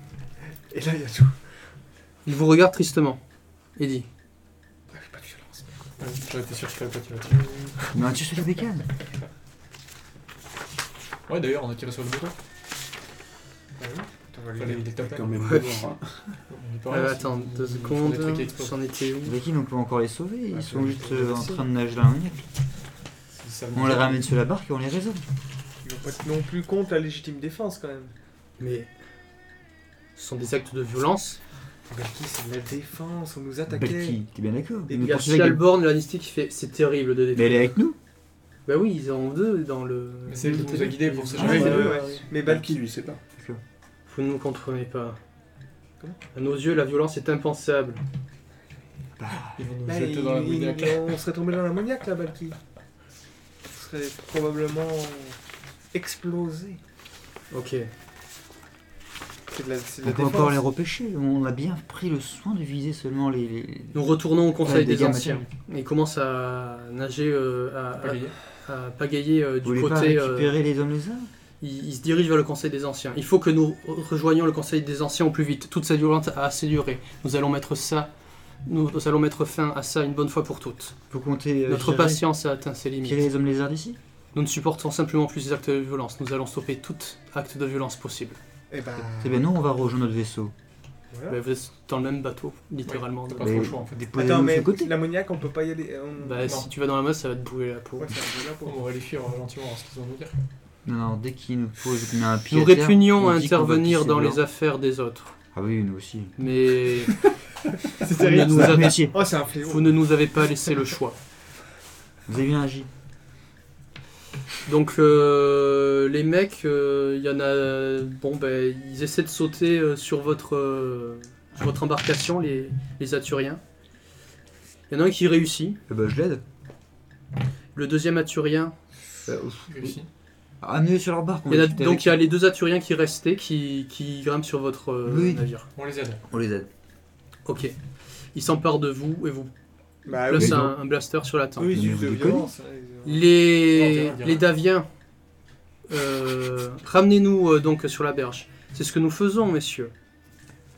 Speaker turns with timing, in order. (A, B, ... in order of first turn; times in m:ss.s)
0:00.7-0:01.4 A
0:02.3-0:03.2 B
0:03.8-0:04.1 B
0:04.9-0:05.7 A
0:06.0-0:07.9 C
0:07.9-0:08.9 D
0:11.3-0:12.4 C
0:13.8-0:15.0 A
0:14.6-0:15.6 C
0:15.0-0:16.2 E
0:16.5-0:18.8 C
0:16.9-0:19.4 B
0:19.2-0:22.5 D
0:20.5-0:21.6 A
0:23.4-0:24.3 C
0:23.7-0:25.2 D
0:25.8-0:28.1 A
0:28.6-0:28.9 B
0:30.2-0:31.4 B
0:31.9-0:34.2 A
0:33.7-0:35.6 D
0:34.9-0:35.2 A
0:35.0-0:37.8 B
0:37.4-0:38.0 D
0:38.7-0:42.2 B
0:40.3-0:42.0 C
0:41.4-0:42.8 A
0:41.4-0:43.2 E
0:43.4-0:43.6 D
0:44.1-0:45.2 B
0:46.3-0:48.0 B
0:49.2-0:49.5 D
0:49.6-0:51.2 C
0:49.8-0:52.6 A
0:53.7-0:55.4 A
0:55.9-0:56.8 A
0:57.5-0:57.9 B
0:59.5-1:00.6 A
1:00.0-1:04.0 D
1:03.9-1:10.5 B
1:04.6-1:05.4 D
1:08.0-1:08.4 C
1:09.6-1:11.3 D
1:11.6-1:18.1 B
1:18.7-1:21.0 B
1:21.1-1:22.3 D
1:21.7-1:23.2 B
1:23.0-1:24.0 D
1:24.4-1:28.4 B
1:28.7-1:29.5 A
1:29.0-1:30.5 D
1:31.1-1:31.4 A
1:31.3-1:33.8 B
1:32.9-1:34.0 C
1:33.4-1:34.9 D
1:34.1-1:36.6 A
1:36.2-1:38.2 B
1:36.4-1:36.7 C
1:38.0-1:38.8 A
1:38.6-1:40.4 C
1:40.8-1:44.4 D
1:42.5-1:45.3 B
1:45.5-1:46.4 D
1:46.4-1:47.3 B
1:47.9-1:50.0 A
1:48.1-1:49.1 B
1:48.2-1:49.2 D
1:49.6-1:51.2 B
1:52.3-1:52.9 D
1:54.7-2:03.6 B
2:04.9-2:05.8 B
2:05.9-2:06.4 D
2:07.8-2:08.7 B
2:09.3-2:10.0 D
2:09.7-2:10.1 C
2:10.6-2:12.2 D
2:11.5-2:15.7 B
2:15.0-2:15.4 D
2:15.8-2:16.2 C
2:16.3-2:16.7 D
2:17.5-2:17.8 B
2:18.3-2:19.5 B
2:20.1-2:20.7 A
2:20.1-2:21.8 B
2:20.3-2:20.7 D
2:21.6-2:23.3 A
2:21.7-2:22.5 D
2:23.0-2:24.9 B
2:23.7-2:24.5 C
2:25.9-2:29.9 B